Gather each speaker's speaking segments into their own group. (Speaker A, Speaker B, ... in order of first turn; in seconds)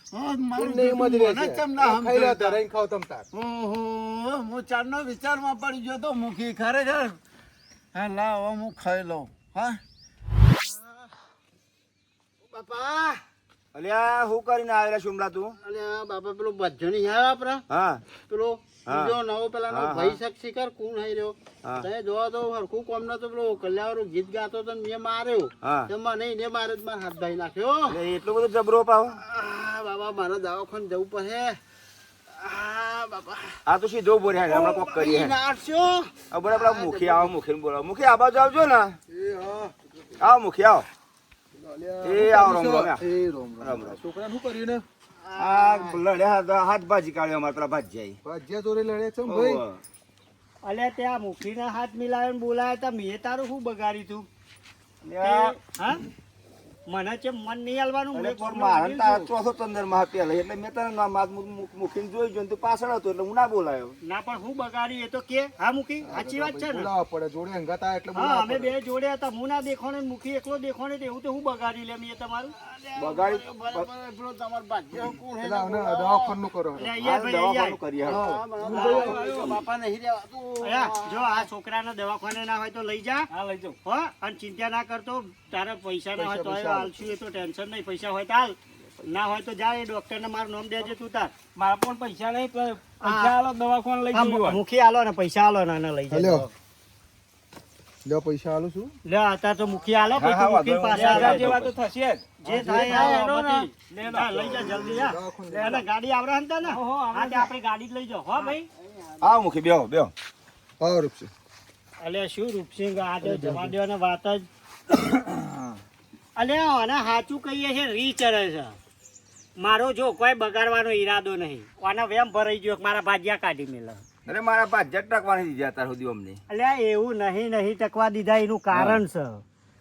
Speaker A: 0.1-2.6, 3.3-7.2, 7.9-9.8, 12.5-13.0, 72.8-74.3, 74.9-76.2, 78.0-80.5
Speaker B: 0.6-3.3, 39.1-39.8, 41.5-44.8, 48.2-49.6, 66.0-68.8, 75.1-76.9, 78.6-79.3, 86.2-87.1, 96.1-96.5, 98.0-98.9, 104.5-105.9, 110.8-111.3, 113.2-113.7
Speaker C: 10.7-11.1, 12.7-13.1, 15.6-17.6, 18.3-21.4, 21.9-27.8, 29.2-31.6, 32.4-33.6, 35.4-36.1, 74.1-74.8, 78.7-80.5
Speaker D: 13.7-15.6, 17.7-18.0, 18.9-20.2, 21.6-21.9, 25.6-25.9, 27.9-29.2, 33.7-35.4, 36.3-39.0, 40.2-40.9, 42.0-43.0, 43.6-44.0, 45.4-48.2, 49.3-49.8, 55.0-55.5, 58.1-64.0, 73.0-73.9, 77.0-78.3, 100.2-101.7, 109.2-110.1, 124.3-126.4, 128.7-129.0
Speaker E: 50.6-54.3, 55.2-56.0, 56.9-59.3, 64.0-66.9, 68.2-72.5, 76.8-77.8, 80.6-83.3, 83.8-91.3, 93.0-93.3, 94.1-96.5, 99.1-101.5, 102.4-108.7, 112.0-114.5, 116.4-118.8, 119.6-124.0, 126.5-129.4
Speaker F: 78.7-79.6, 83.3-83.8, 91.6-94.6, 100.9-104.9, 106.6-107.5